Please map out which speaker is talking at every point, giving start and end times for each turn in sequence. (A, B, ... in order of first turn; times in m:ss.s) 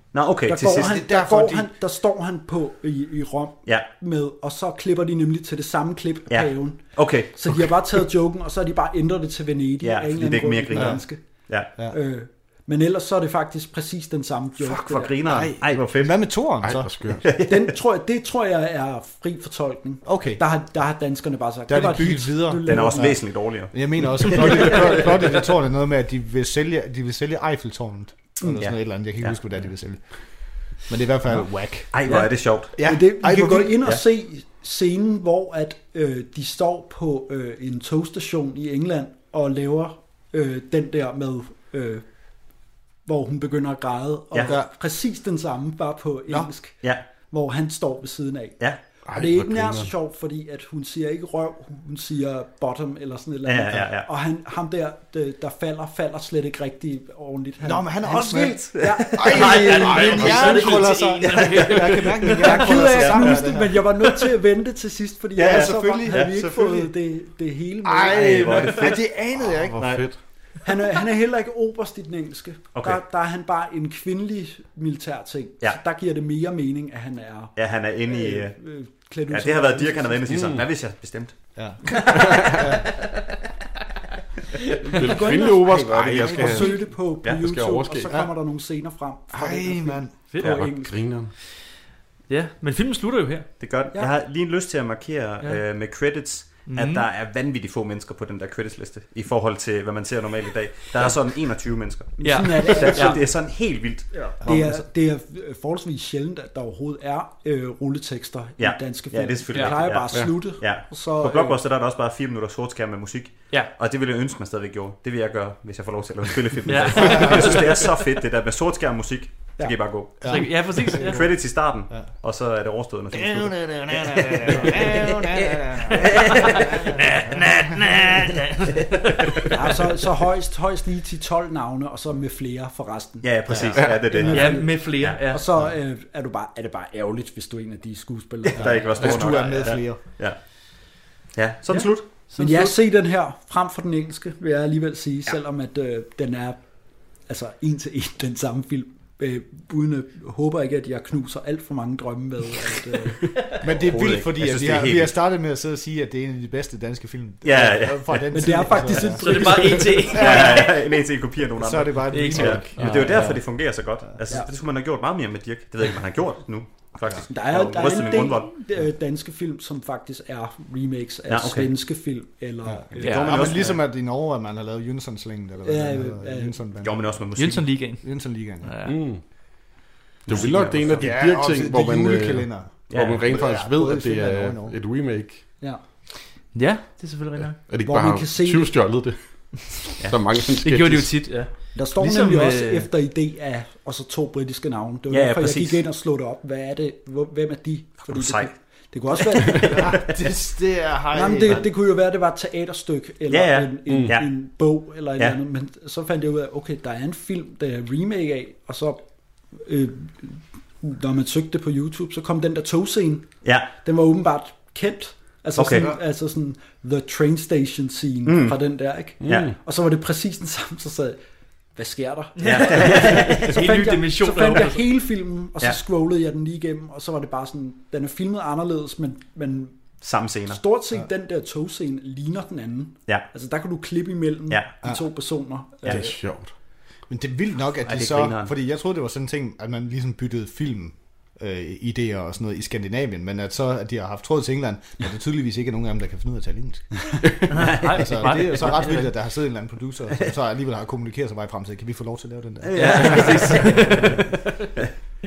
0:00.1-0:01.0 A
0:00.5-0:11.2 B
0:00.6-0:01.7 C
0:06.3-0:07.7 A
0:09.8-0:11.7 A
0:10.7-0:11.0 C
0:11.9-0:15.2 B
0:14.6-0:16.4 A
0:15.2-0:16.9 C
0:16.6-0:17.2 D
0:17.2-0:17.7 A
0:17.4-0:23.1 B
0:20.0-0:20.4 C
0:21.7-0:30.0 C
0:22.7-0:24.9 A
0:28.4-0:29.4 A
0:30.9-0:32.0 C
0:31.9-0:32.7 A
0:32.8-0:33.8 C
0:32.8-0:42.0 B
0:43.1-0:48.6 B
0:44.5-0:44.7 C
0:49.1-0:49.9 D
0:49.1-1:00.8 B
0:53.5-0:54.1 A
0:57.6-1:03.8 C
0:58.4-1:00.5 A
0:59.3-1:02.9 E
1:02.4-1:08.9 B
1:02.9-1:03.4 A
1:05.4-1:06.9 A
1:05.4-1:06.3 C
1:07.8-1:09.8 C
1:08.0-1:09.2 A
1:09.4-1:10.2 D
1:09.8-1:10.0 A
1:10.6-1:20.4 B
1:12.8-1:13.0 A
1:17.6-1:18.6 A
1:19.3-1:21.4 A
1:20.3-1:20.6 D
1:21.6-1:22.9 C
1:24.8-1:30.9 B
1:24.9-1:28.1 D
1:25.4-1:26.8 C
1:29.3-1:30.2 C
1:30.3-1:30.7 E
1:30.5-1:31.3 D
1:32.3-1:33.5 E
1:33.6-1:44.8 A
1:36.7-1:37.1 E
1:42.2-1:43.2 B
1:42.2-1:43.2 E
1:44.4-1:51.6 B
1:48.6-2:05.2 A
1:49.5-1:49.8 E
1:50.1-1:50.4 D
1:56.7-1:57.9 E
1:57.0-1:57.7 C
2:00.2-2:01.2 E
2:00.2-2:02.1 C
2:03.1-2:08.2 C
2:05.8-2:06.9 A
2:06.2-2:09.5 E
2:09.5-2:18.9 B
2:13.2-2:15.2 A
2:13.5-2:13.8 C
2:14.1-2:15.5 E
2:18.5-2:20.4 A
2:18.5-2:20.0 C
2:19.0-2:19.3 D
2:21.4-2:22.1 A
2:21.7-2:22.8 E
2:22.4-2:26.6 B
2:27.3-2:33.2 B
2:33.6-2:40.8 C
2:33.9-2:35.2 A
2:37.4-2:39.2 A
2:38.3-2:39.8 B
2:39.2-2:40.8 E
2:40.0-2:48.5 A
2:41.6-2:43.3 C
2:42.1-2:43.4 E
2:44.1-2:44.4 C
2:47.3-2:53.1 B
2:51.3-2:51.7 A
2:52.6-2:57.2 C
2:53.0-2:53.4 E
2:53.0-2:53.8 A
2:55.6-2:56.6 B
2:56.8-2:57.8 A
2:57.4-2:59.0 E
2:58.0-2:58.7 C
2:58.8-2:59.2 D
3:00.3-3:05.5 D
3:00.3-3:01.2 A
3:00.9-3:04.8 C
3:02.9-3:03.3 A
3:06.5-3:07.6 E
3:07.6-3:09.2 D
3:07.8-3:08.7 B
3:10.1-3:11.3 D
3:10.4-3:12.9 E
3:11.8-3:19.8 B
3:15.1-3:15.8 A
3:18.0-3:18.6 A
3:19.6-3:21.7 C
3:21.1-3:29.0 B
3:23.3-3:24.3 A
3:23.9-3:24.2 D
3:29.5-3:33.3 B
3:33.4-3:33.7 A
3:33.8-3:41.2 B
3:35.6-3:35.9 A
3:38.3-3:38.6 A
3:39.2-3:39.6 D
3:41.8-3:49.8 B
3:42.4-3:45.0 E
3:42.4-3:43.5 A
3:50.0-3:50.6 A
3:50.5-3:56.1 B
3:55.9-3:56.5 D
3:57.1-4:07.1 C
3:57.8-3:58.5 A
4:07.5-4:09.1 E
4:07.8-4:14.2 C
4:12.6-4:14.2 A
4:12.7-4:14.7 E